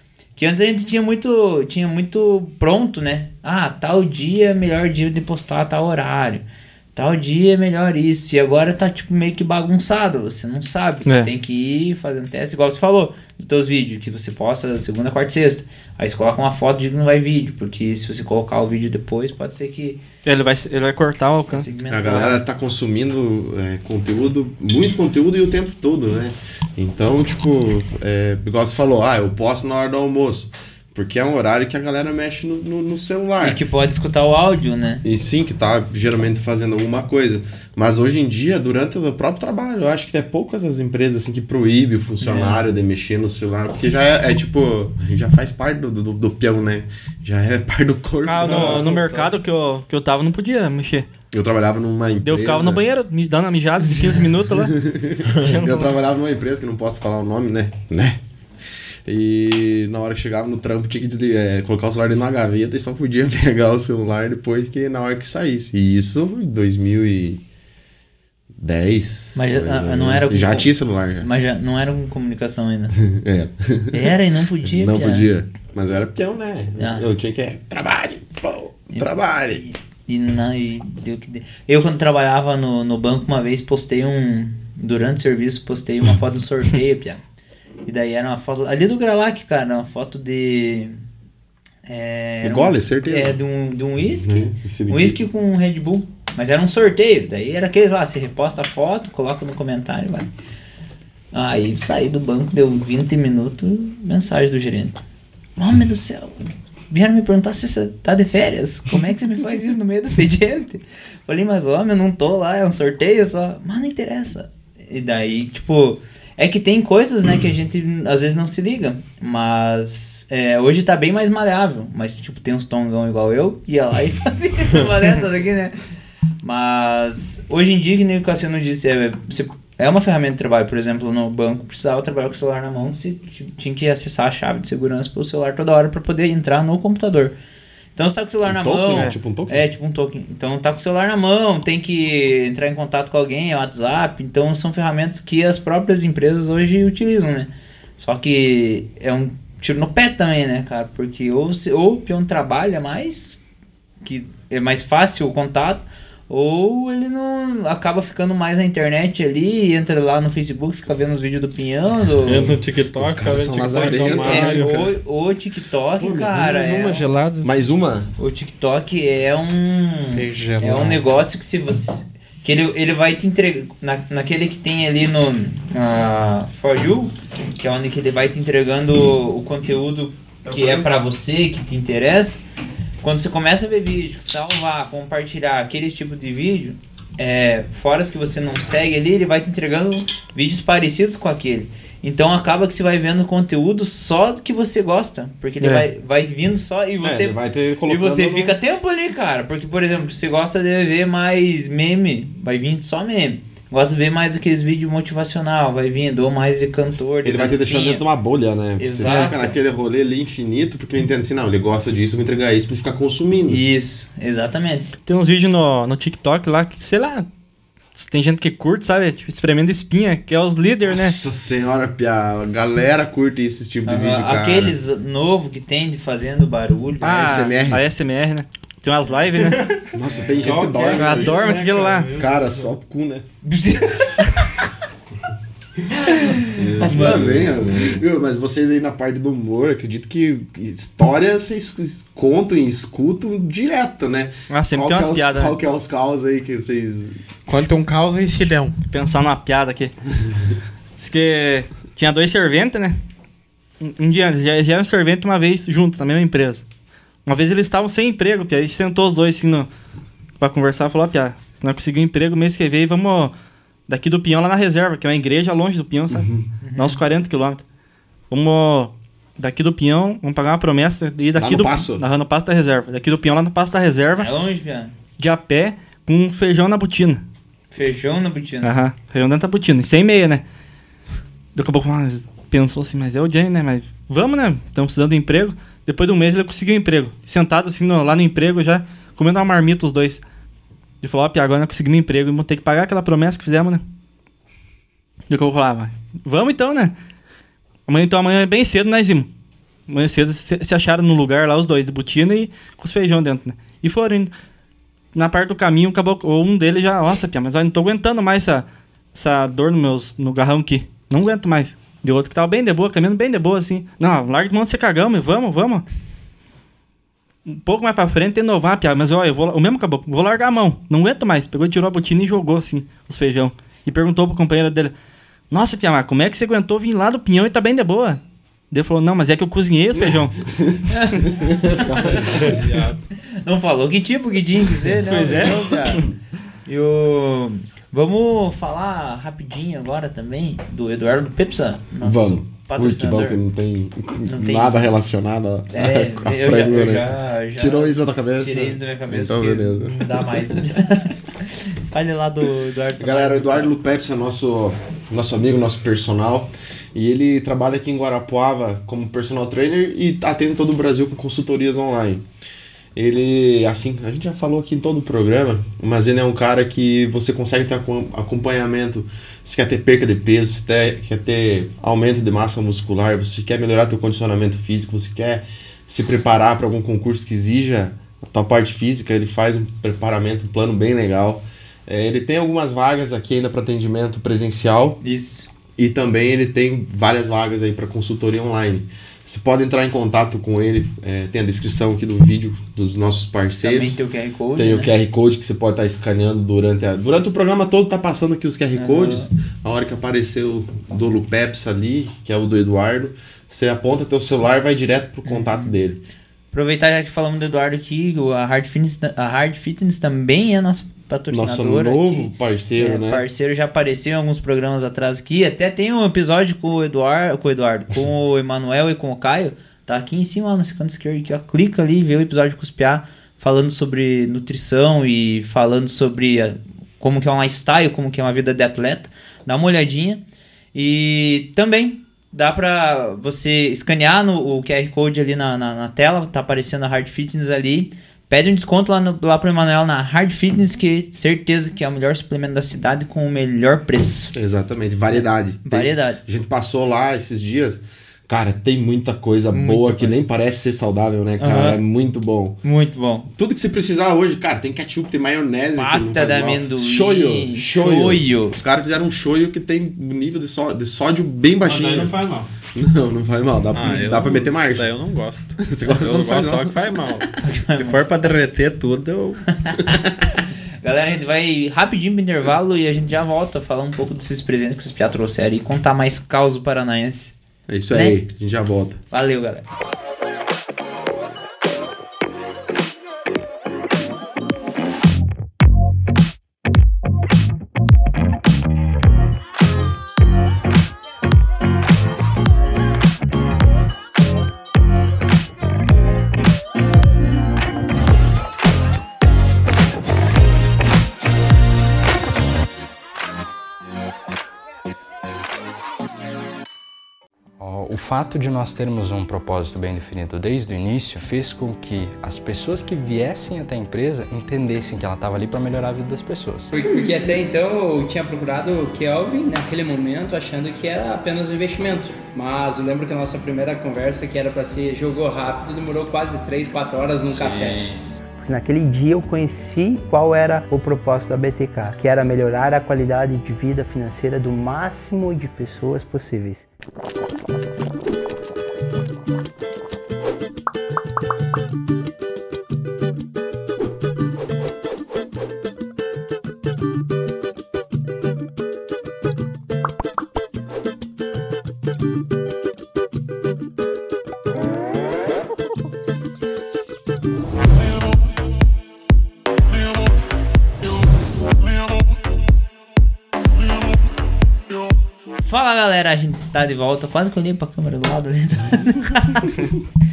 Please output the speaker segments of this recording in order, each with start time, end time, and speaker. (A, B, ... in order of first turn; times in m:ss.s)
0:00.4-0:06.4 A
0:06.9-0:20.0 A
0:20.2-0:21.6 B
0:21.5-0:22.4 A
0:21.9-0:33.6 C
0:33.4-0:35.0 A
0:35.0-0:48.9 C
0:42.2-0:42.6 A
0:48.2-0:51.0 B
0:48.4-0:49.3 D
0:51.3-0:52.8 C
0:52.2-0:54.7 B
0:54.5-0:58.2 C
0:55.5-0:55.9 B
0:59.0-1:07.4 C
1:08.6-1:11.3 C
1:09.3-1:13.0 A
1:13.0-1:19.6 C
1:13.9-1:15.3 A
1:16.8-1:17.0 A
1:18.9-1:27.2 A
1:27.8-1:31.0 A
1:31.8-1:40.3 A
1:32.4-1:33.4 C
1:34.2-1:35.2 C
1:41.3-1:45.0 A
1:45.6-2:05.8 A
2:06.4-2:17.3 A
2:18.0-2:33.4 A
2:18.4-2:19.6 C
2:34.0-2:42.6 A
2:42.2-2:44.9 D
2:43.0-2:44.9 C
2:43.8-2:47.1 A
2:46.0-2:47.6 D
2:47.4-2:48.1 C
2:48.2-3:02.4 A
2:50.2-2:51.0 C
3:03.0-3:28.0 A
3:15.6-3:15.8 B
3:17.0-3:18.6 C
3:27.2-3:33.6 C
3:28.8-3:29.6 A
3:33.5-3:34.9 A
3:35.0-3:37.2 B
3:37.9-3:41.2 B
3:40.8-3:44.8 C
3:43.8-3:47.4 A
3:47.0-3:49.6 B
3:47.0-3:47.8 C
3:49.4-3:52.7 D
3:49.9-3:51.5 C
3:50.1-3:50.4 A
3:50.8-3:52.1 B
3:52.2-3:53.2 C
3:53.4-3:54.2 A
3:56.0-3:57.2 A
3:56.5-3:58.0 D
3:56.8-4:07.2 C
4:04.5-4:05.6 B
4:07.4-4:08.8 D
4:08.9-4:09.9 B
4:11.0-4:13.0 B
4:13.8-4:16.6 B
4:17.2-4:19.7 B
4:20.4-4:23.3 B
4:23.9-4:27.6 B
4:26.1-4:26.5 C
4:26.6-4:27.0 A
4:28.3-4:34.3 B
4:31.4-4:32.0 C
4:34.2-4:34.9 A
4:35.2-4:37.2 B
4:37.7-4:38.7 A
4:38.6-4:40.4 B
4:41.5-4:50.2 B
4:51.0-4:53.8 B
4:55.3-4:56.9 B
4:57.9-4:59.3 B
4:59.9-5:04.3 B
5:05.1-5:15.8 B
5:17.4-5:24.9 B
5:25.5-5:28.2 B
5:28.7-5:30.4 B
5:30.0-5:32.7 C
5:30.9-5:32.6 A
5:32.2-5:33.0 D
5:33.4-5:36.0 A
5:35.1-5:36.0 B
5:36.6-5:43.4 A
5:42.0-5:50.2 C
5:44.2-5:44.9 A
5:45.7-5:53.7 A
5:53.0-6:02.2 C
6:02.9-6:25.0 C
6:25.0-6:25.5 A
6:25.8-6:34.0 C
6:33.6-6:34.9 A
6:34.6-6:46.0 C
6:38.7-6:39.3 A
6:45.2-6:45.8 A
6:46.5-7:10.2 A
6:51.3-6:53.2 C
7:10.7-7:24.3 A
7:24.3-7:32.6 C
7:25.1-7:26.2 A
7:29.5-7:30.2 A
7:31.4-7:31.8 A
7:32.6-7:33.3 A
7:33.4-7:42.2 C
7:35.8-7:38.6 A
7:41.6-7:42.5 D
7:42.7-7:44.9 C
7:43.7-7:49.5 D
7:45.6-7:46.8 C
7:47.4-7:48.0 A
7:49.6-7:50.0 A
7:50.8-7:57.4 A
7:57.7-7:59.0 C
7:57.9-7:58.2 A
7:59.1-7:59.6 A
8:27.6-8:36.7 E
8:36.7-8:47.9 F
8:47.3-8:48.0 E
8:48.4-8:56.7 G
9:25.4-9:29.5 A